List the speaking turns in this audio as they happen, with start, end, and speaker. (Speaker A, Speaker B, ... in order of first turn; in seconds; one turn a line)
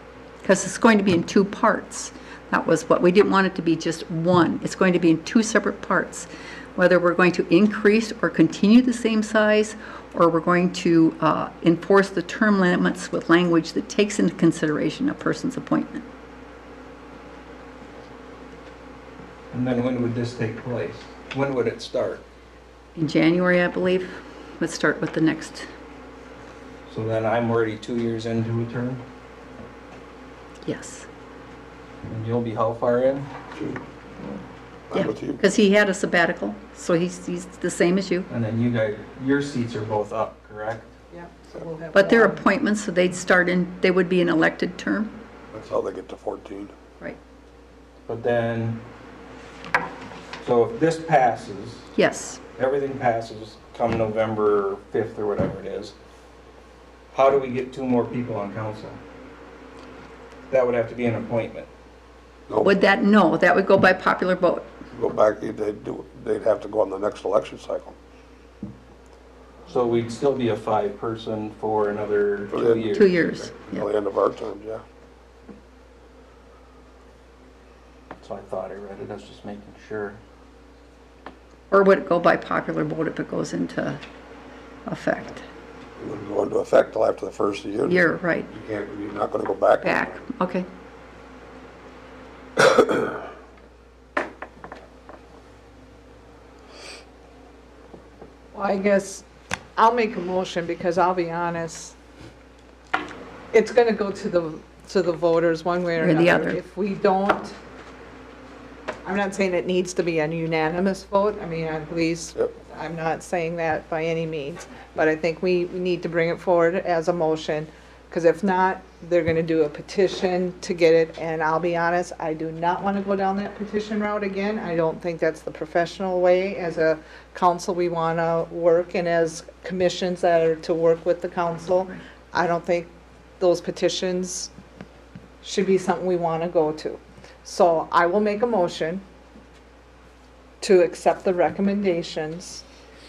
Speaker A: 0.4-16.1
Speaker B: 19.5-22.2
Speaker A: 23.0-25.7
Speaker B: 26.9-29.0
Speaker A: 30.6-31.1
Speaker B: 32.1-33.3
Speaker C: 34.9-35.4
Speaker A: 34.9-38.3
Speaker B: 38.3-40.9
Speaker D: 41.1-42.4
Speaker A: 41.9-45.2
Speaker C: 45.5-46.7
Speaker B: 48.1-48.9
Speaker B: 50.4-51.9
Speaker A: 52.0-52.4
Speaker B: 52.5-55.9
Speaker B: 57.1-59.0
Speaker B: 60.5-61.7
Speaker C: 62.5-62.8
Speaker A: 62.6-64.7
Speaker C: 64.9-68.0
Speaker B: 69.7-73.2
Speaker C: 72.5-74.8
Speaker A: 72.9-73.9
Speaker B: 78.2-80.2
Speaker A: 81.7-84.0
Speaker A: 84.9-85.5
Speaker C: 86.0-90.1
Speaker A: 87.9-88.5
Speaker A: 89.8-90.7
Speaker C: 92.6-93.0
Speaker D: 98.5-99.2
Speaker D: 99.8-102.0
Speaker D: 103.5-107.5
Speaker A: 106.0-106.6
Speaker D: 109.0-134.5
Speaker D: 135.4-139.0
Speaker D: 140.6-142.6